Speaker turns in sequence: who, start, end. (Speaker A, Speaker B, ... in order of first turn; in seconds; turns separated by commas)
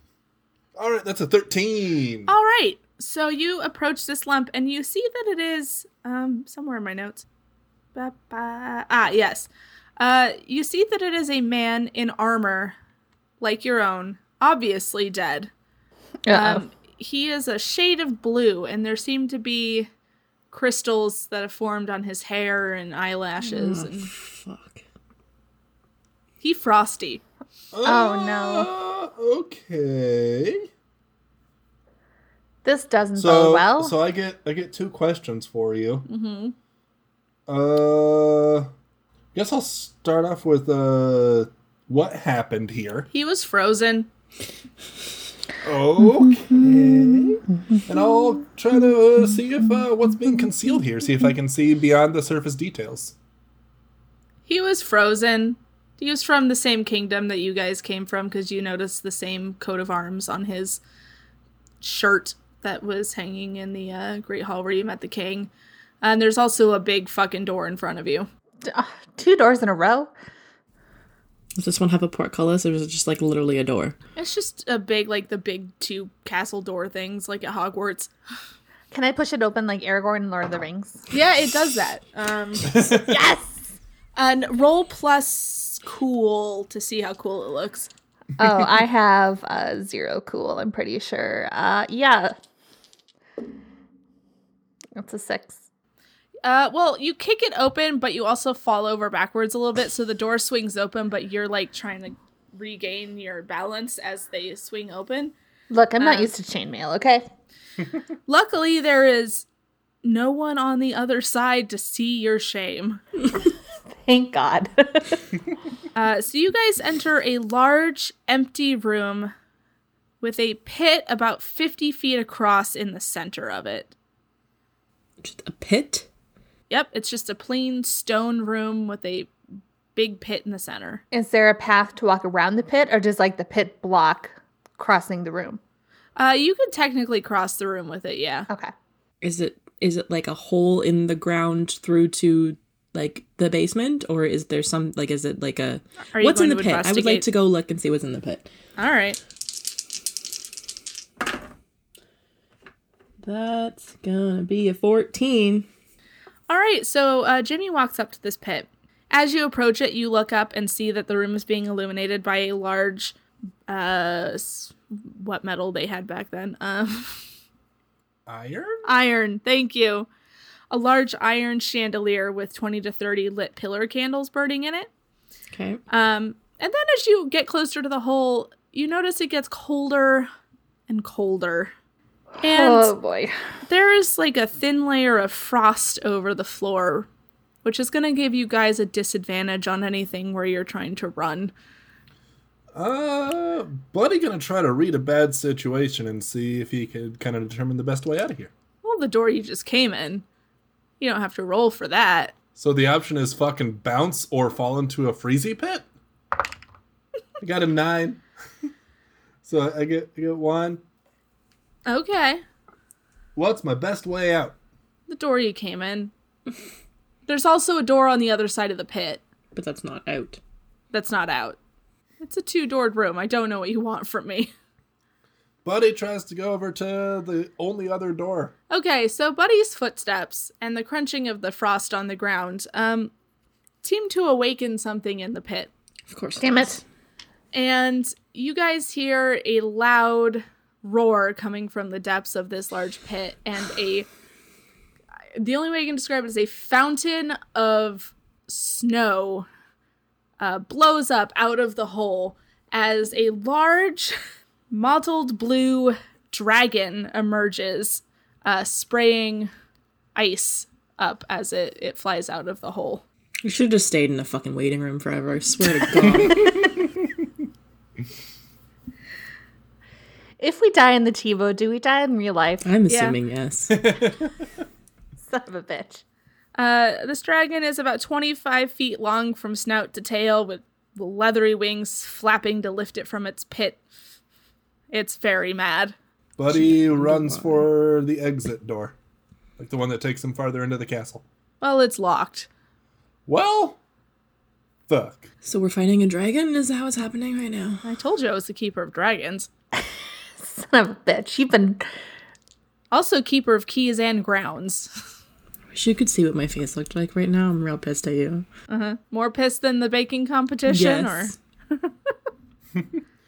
Speaker A: 0.8-2.3, Speaker B: 2.3-7.2, Speaker B: 7.9-12.8, Speaker B: 13.4-15.5, Speaker C: 16.2-16.6, Speaker B: 16.3-19.9, Speaker B: 20.5-24.1, Speaker D: 23.4-24.8, Speaker B: 26.4-27.2, Speaker A: 27.7-30.6, Speaker C: 27.8-28.7, Speaker C: 32.6-34.0, Speaker A: 33.2-36.0, Speaker B: 36.1-36.5, Speaker A: 37.5-38.7, Speaker A: 39.3-43.1, Speaker B: 43.1-44.1, Speaker A: 45.6-53.1, Speaker C: 46.0-47.9, Speaker B: 54.5-60.8, Speaker B: 61.8-65.5, Speaker B: 66.0-68.3, Speaker C: 68.6-70.1, Speaker D: 71.5-74.0, Speaker B: 74.2-78.1, Speaker C: 78.9-81.1, Speaker B: 81.1-82.7, Speaker A: 82.7-83.1, Speaker C: 82.7-83.7, Speaker B: 84.2-87.9, Speaker C: 88.4-92.3, Speaker C: 95.0-95.6, Speaker B: 96.4-105.3, Speaker C: 105.7-107.3, Speaker B: 106.0-106.3, Speaker B: 108.3-109.5, Speaker B: 110.0-113.0, Speaker C: 114.0-115.2, Speaker B: 115.9-119.3, Speaker B: 120.2-123.9, Speaker D: 125.2-126.1, Speaker B: 126.7-129.3, Speaker B: 129.9-131.0, Speaker C: 131.1-135.6, Speaker B: 136.2-138.5, Speaker D: 139.2-148.5, Speaker B: 146.1-147.2, Speaker B: 148.8-149.2, Speaker D: 153.2-155.7, Speaker B: 156.5-163.2, Speaker B: 163.7-167.2, Speaker A: 168.3-168.8, Speaker B: 168.8-170.1, Speaker B: 170.7-174.9, Speaker D: 175.5-175.8, Speaker B: 175.9-180.3, Speaker B: 180.9-181.7, Speaker C: 182.3-183.3, Speaker B: 182.4-182.9, Speaker B: 183.7-187.1, Speaker B: 187.6-191.5, Speaker A: 192.7-198.5, Speaker B: 198.8-200.2, Speaker B: 201.0-202.3, Speaker A: 202.6-205.9, Speaker A: 207.4-208.2, Speaker A: 209.4-210.8, Speaker B: 211.8-212.4, Speaker A: 213.3-214.5, Speaker B: 215.1-216.1, Speaker B: 217.3-219.2, Speaker D: 219.5-220.4, Speaker B: 220.9-221.6, Speaker B: 222.2-224.5, Speaker A: 225.6-228.5, Speaker B: 228.7-233.1, Speaker B: 233.8-235.7, Speaker D: 236.1-236.8, Speaker C: 236.4-236.8, Speaker B: 237.5-244.1, Speaker B: 245.4-249.5, Speaker B: 250.4-254.1, Speaker B: 254.7-259.5, Speaker B: 260.1-263.0, Speaker D: 263.4-266.6, Speaker A: 266.1-266.8, Speaker C: 270.4-272.6, Speaker D: 272.6-273.9, Speaker B: 272.9-273.2, Speaker A: 273.7-274.3, Speaker C: 275.2-276.0, Speaker B: 276.6-283.8, Speaker B: 284.9-285.9, Speaker A: 286.4-288.9, Speaker D: 286.5-287.7, Speaker A: 289.6-291.2, Speaker B: 291.6-292.5, Speaker A: 293.3-293.8, Speaker A: 294.9-295.3, Speaker D: 295.4-297.8, Speaker B: 297.8-299.5, Speaker C: 299.8-301.9, Speaker B: 302.9-304.9, Speaker D: 305.7-308.4, Speaker B: 308.7-311.3, Speaker D: 310.7-311.4